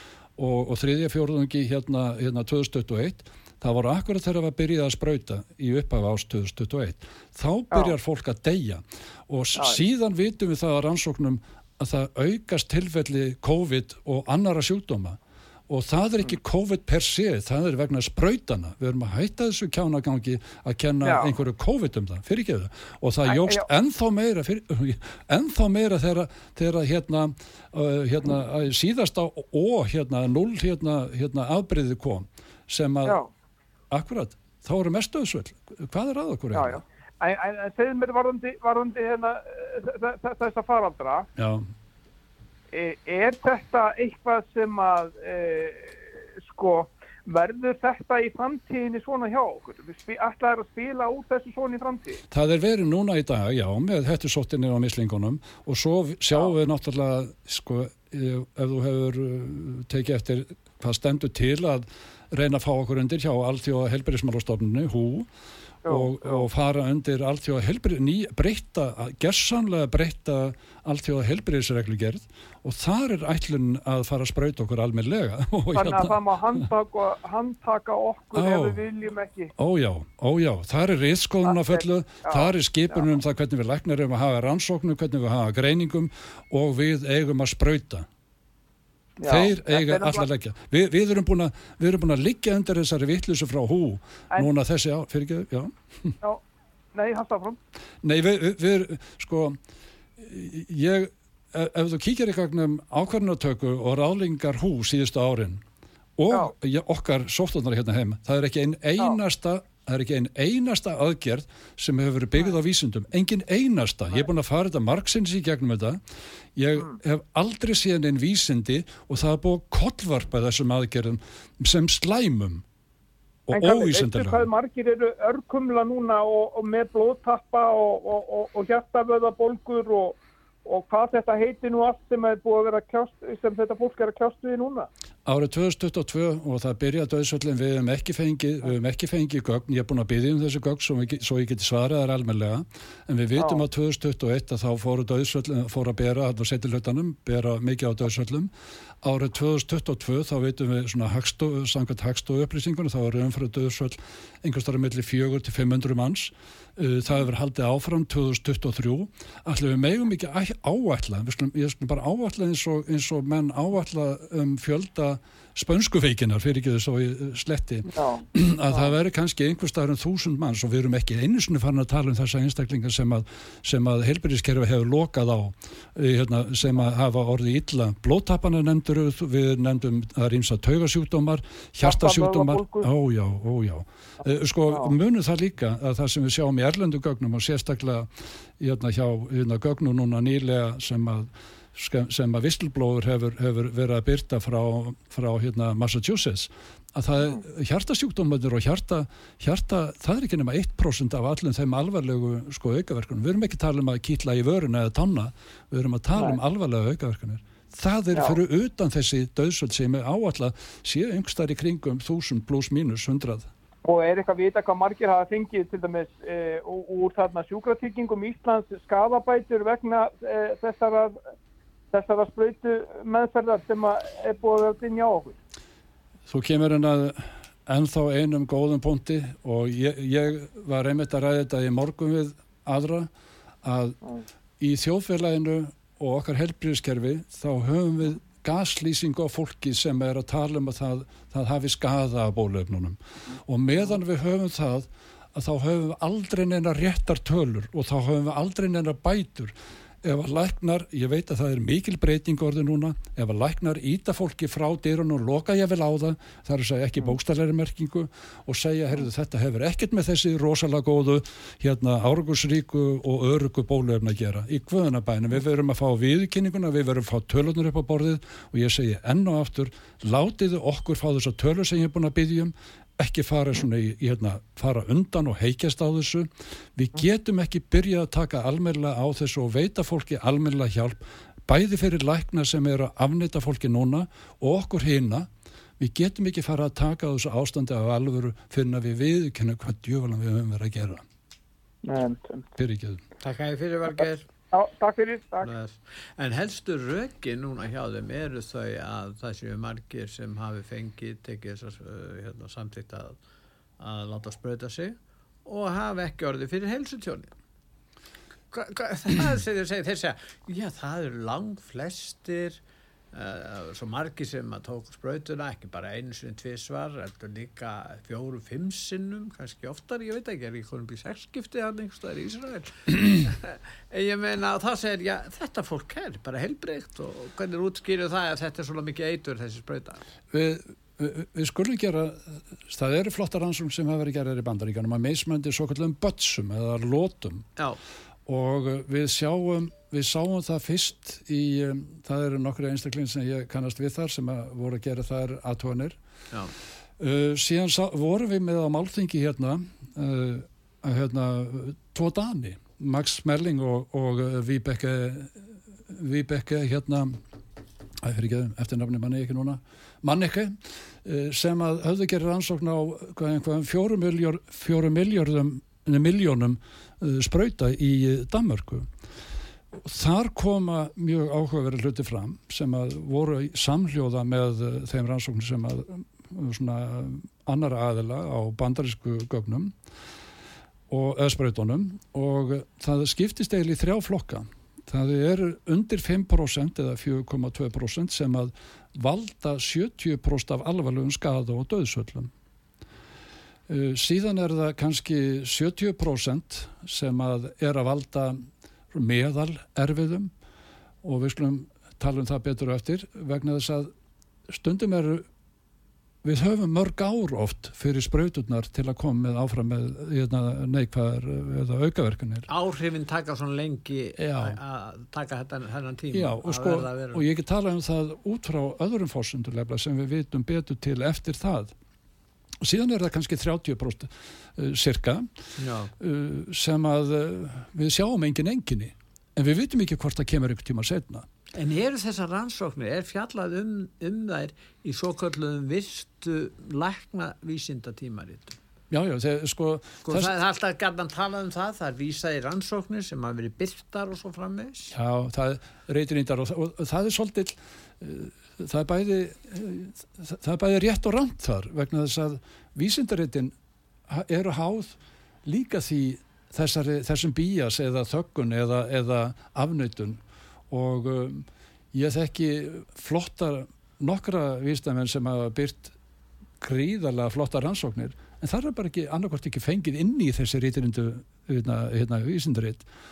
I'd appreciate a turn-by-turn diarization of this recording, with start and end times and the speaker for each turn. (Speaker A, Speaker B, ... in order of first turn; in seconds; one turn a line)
Speaker A: 0.4-33.2
Speaker B: 21.0-21.3
Speaker B: 23.3-23.6
Speaker A: 33.9-36.8
Speaker B: 36.5-41.3
Speaker A: 41.4-41.7
Speaker B: 42.7-52.2
Speaker A: 52.3-65.3
Speaker B: 65.8-66.5
Speaker A: 65.8-76.7
Speaker B: 75.7-79.5
Speaker A: 78.3-78.8
Speaker A: 79.5-88.1
Speaker B: 81.5-83.0
Speaker B: 89.2-90.2
Speaker A: 89.2-96.2
Speaker B: 96.9-97.6
Speaker A: 98.0-99.6
Speaker A: 100.2-105.6
Speaker A: 106.2-116.0
Speaker A: 116.5-122.6
Speaker A: 123.5-124.5
Speaker B: 123.5-134.9
Speaker A: 135.2-148.5
Speaker B: 143.4-143.6
Speaker A: 149.0-213.5
Speaker B: 167.9-168.9
Speaker B: 181.8-182.9
Speaker B: 184.7-184.9
Speaker B: 208.1-208.4
Speaker B: 213.8-221.2
Speaker B: 221.9-225.4
Speaker A: 226.3-233.1
Speaker A: 233.6-234.0
Speaker A: 234.6-285.3
Speaker A: 285.8-291.0
Speaker B: 291.8-292.5
Speaker A: 292.6-293.0
Speaker C: 293.2-294.3
Speaker B: 294.5-295.5
Speaker C: 295.4-303.1
Speaker C: 303.8-307.3
Speaker C: 308.5-312.6
Speaker C: 313.1-330.0
Speaker A: 330.3-337.5
Speaker A: 338.2-346.0
Speaker A: 347.0-357.2
Speaker A: 358.0-368.9
Speaker A: 369.7-379.8
Speaker A: 380.9-392.3
Speaker A: 393.7-400.3
Speaker A: 401.0-403.9
Speaker A: 404.5-405.2
Speaker A: 406.2-412.5
Speaker C: 412.5-417.2
Speaker A: 414.2-414.6
Speaker A: 416.1-421.7
Speaker A: 422.6-425.3
Speaker C: 425.6-425.9
Speaker A: 426.0-431.3
Speaker C: 431.5-438.6
Speaker A: 438.9-440.4
Speaker C: 440.0-444.9
Speaker A: 444.9-453.5
Speaker A: 454.1-465.9
Speaker A: 466.6-472.9